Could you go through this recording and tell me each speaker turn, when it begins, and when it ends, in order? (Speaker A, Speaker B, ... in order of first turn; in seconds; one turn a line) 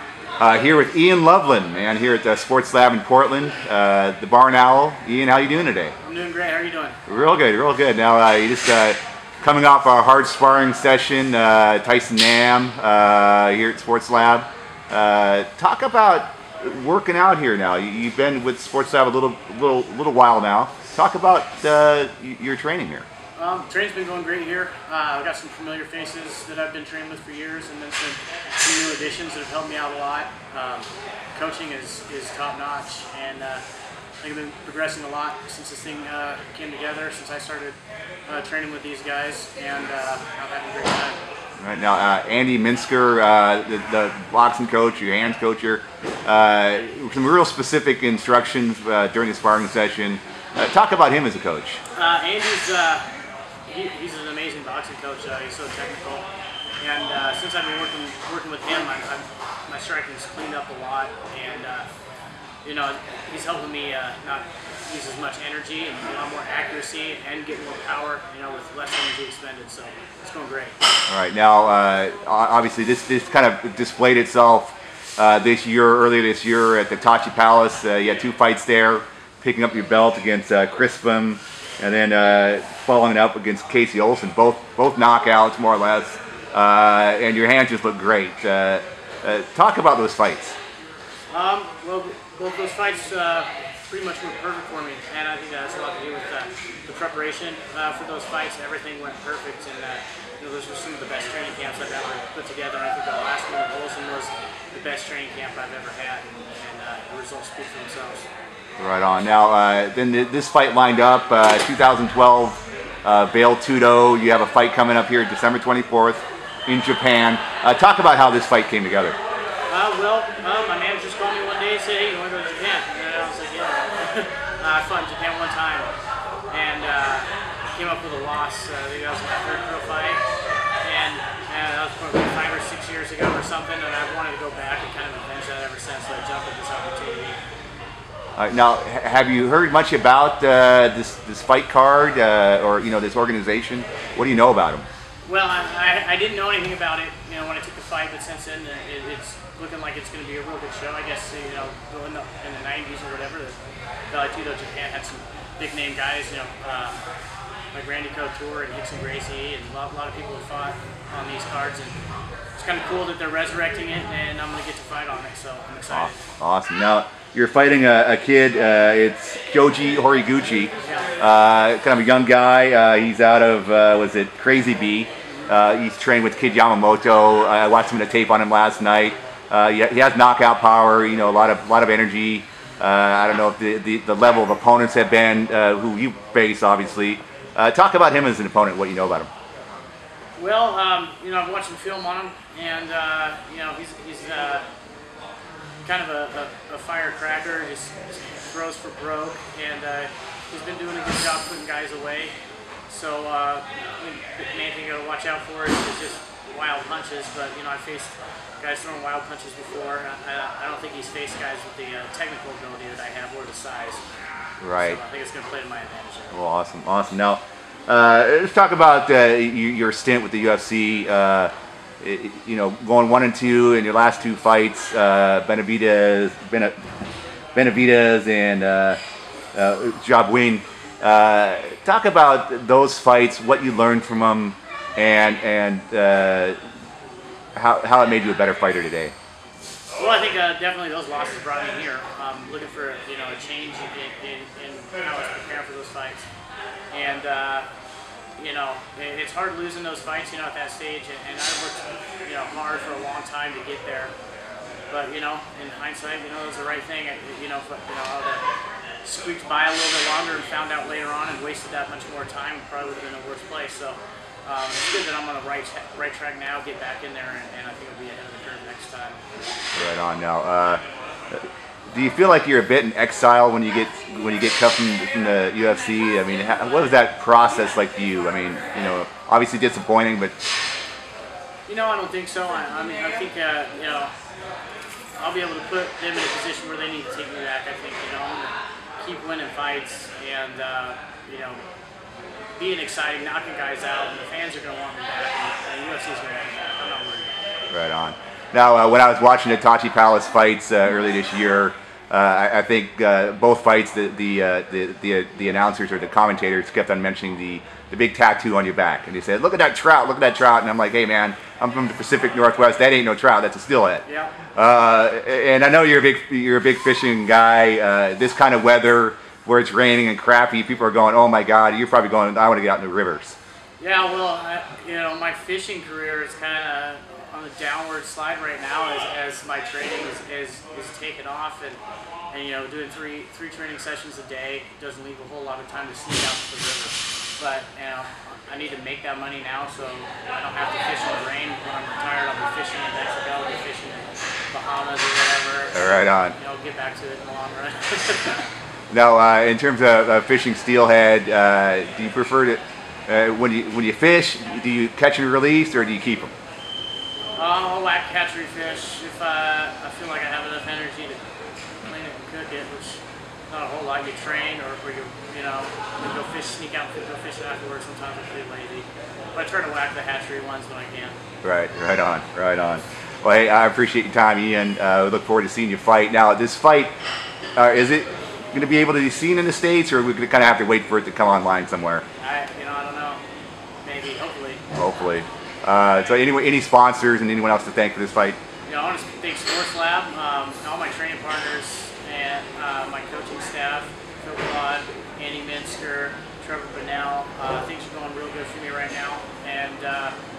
Speaker A: 0.4-6.0
Speaker B: 6.0-7.0
Speaker A: 7.1-23.1
Speaker B: 23.4-33.6
Speaker B: 34.2-41.2
Speaker A: 41.6-51.8
Speaker B: 51.9-53.1
Speaker B: 53.7-56.3
Speaker B: 56.8-61.9
Speaker B: 62.6-70.8
Speaker A: 71.1-90.6
Speaker B: 91.3-108.3
Speaker A: 108.8-119.2
Speaker B: 119.7-125.9
Speaker B: 126.5-130.2
Speaker B: 130.8-137.4
Speaker A: 138.4-144.9
Speaker B: 145.2-153.6
Speaker B: 154.1-157.0
Speaker B: 157.7-161.9
Speaker B: 162.6-166.2
Speaker A: 165.9-189.3
Speaker B: 170.8-171.1
Speaker B: 190.4-194.7
Speaker B: 195.8-202.3
Speaker B: 202.9-214.0
Speaker A: 214.6-215.0
Speaker B: 214.8-216.3
Speaker A: 216.3-226.8
Speaker A: 227.6-229.0
Speaker A: 229.5-236.6
Speaker A: 237.6-239.1
Speaker B: 240.0-246.3
Speaker B: 246.9-247.7
Speaker B: 248.4-254.1
Speaker B: 254.9-258.4
Speaker B: 259.0-269.2
Speaker A: 269.8-280.3
Speaker B: 281.7-284.1
Speaker B: 285.2-291.6
Speaker B: 292.6-297.4
Speaker A: 297.7-323.4
Speaker B: 314.1-314.4
Speaker B: 323.8-348.5
Speaker A: 345.7-346.4
Speaker A: 348.9-356.3
Speaker B: 357.4-361.2
Speaker B: 361.9-371.2
Speaker A: 371.4-376.9
Speaker A: 377.6-382.1
Speaker B: 382.2-383.2
Speaker B: 383.8-384.6
Speaker A: 384.7-388.4
Speaker B: 388.7-400.1